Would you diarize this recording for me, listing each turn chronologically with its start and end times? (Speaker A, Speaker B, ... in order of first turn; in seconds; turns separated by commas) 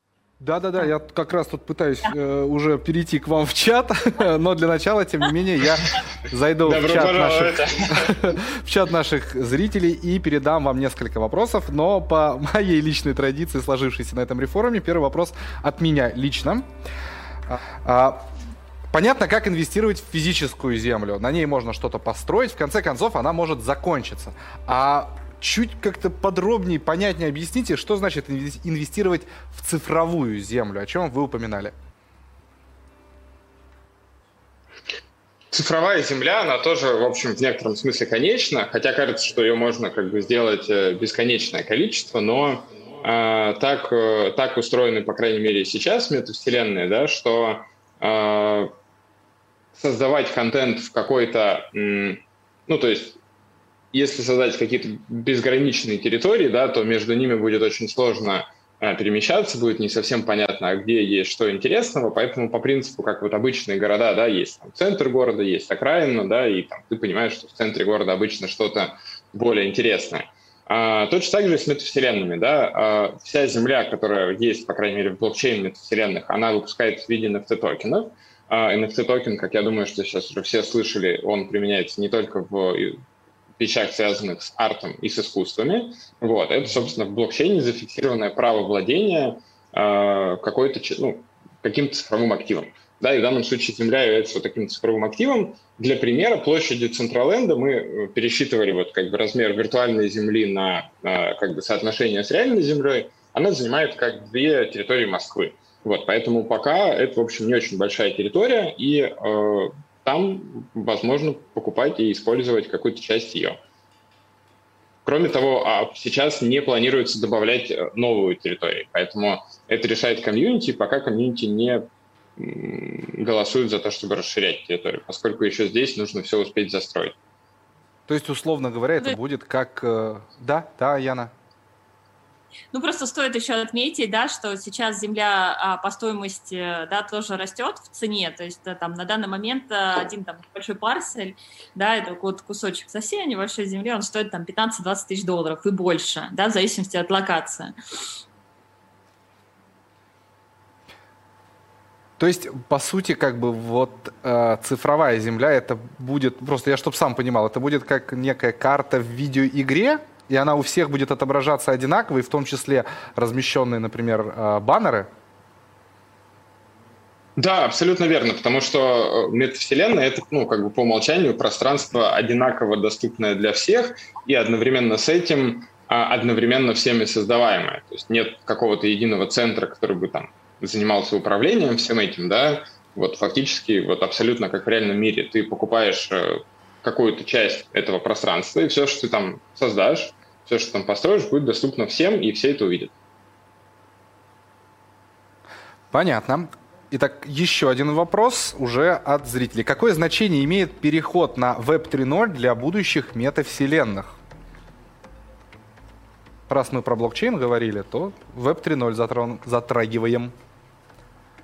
Speaker A: 0.4-16.6, Speaker B: 6.6-8.4, Speaker A: 17.5-18.3, Speaker A: 18.9-31.7, Speaker B: 35.5-48.7, Speaker B: 49.7-53.2, Speaker B: 53.9-83.0, Speaker B: 83.6-113.6, Speaker B: 115.0-121.8, Speaker B: 122.4-127.2, Speaker A: 128.1-131.3, Speaker C: 132.7-147.7, Speaker A: 152.2-165.1, Speaker B: 167.4-192.9, Speaker A: 195.9-204.2, Speaker A: 206.5-210.3